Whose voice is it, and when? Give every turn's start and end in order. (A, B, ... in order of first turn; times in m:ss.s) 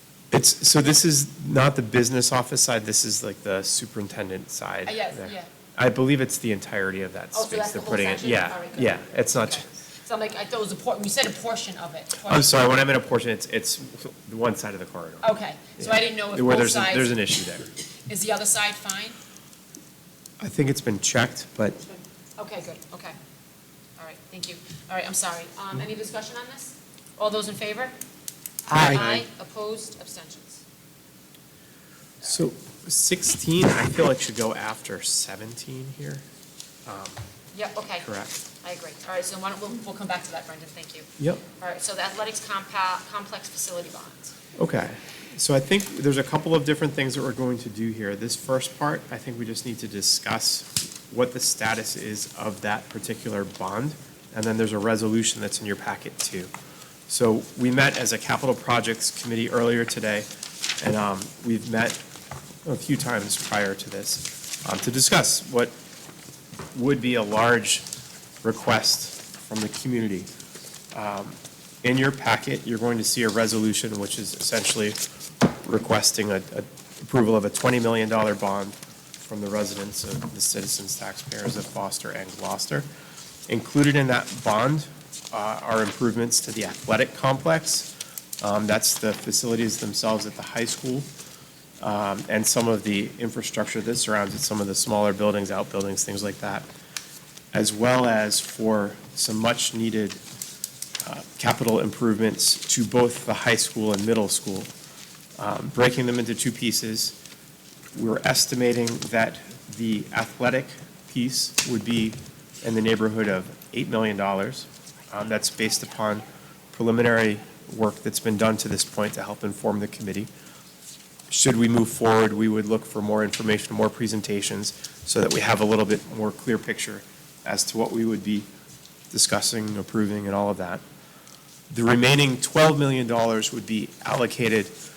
0:00.3-0:09.7 A
0:04.8-0:05.5 B
0:07.3-0:12.6 B
0:12.2-0:15.2 A
0:15.2-0:17.2 B
0:15.8-0:17.7 A
0:18.1-0:19.2 B
0:20.4-0:21.8 A
0:22.4-0:23.2 B
0:24.0-0:27.9 B
0:28.7-0:30.6 B
0:29.0-0:29.2 A
0:32.2-0:36.2 A
0:36.8-0:37.2 A
0:37.5-0:38.1 B
0:38.0-0:38.4 A
0:38.6-0:44.3 B
0:44.6-0:56.5 A
0:57.1-1:00.2 A
1:00.8-1:02.0 A
1:02.6-1:05.7 A
1:06.7-1:07.8 A
1:08.4-1:10.3 A
1:10.9-1:15.0 A
1:15.6-1:22.8 A
1:23.5-1:27.9 A
1:28.4-1:31.1 A
1:31.8-1:36.7 A
1:37.5-1:40.2 A
1:41.0-1:44.7 A
1:45.4-1:47.2 A
1:47.9-2:00.3 A
2:01.3-2:08.5 A
2:09.1-2:10.8 A
2:11.7-2:14.7 A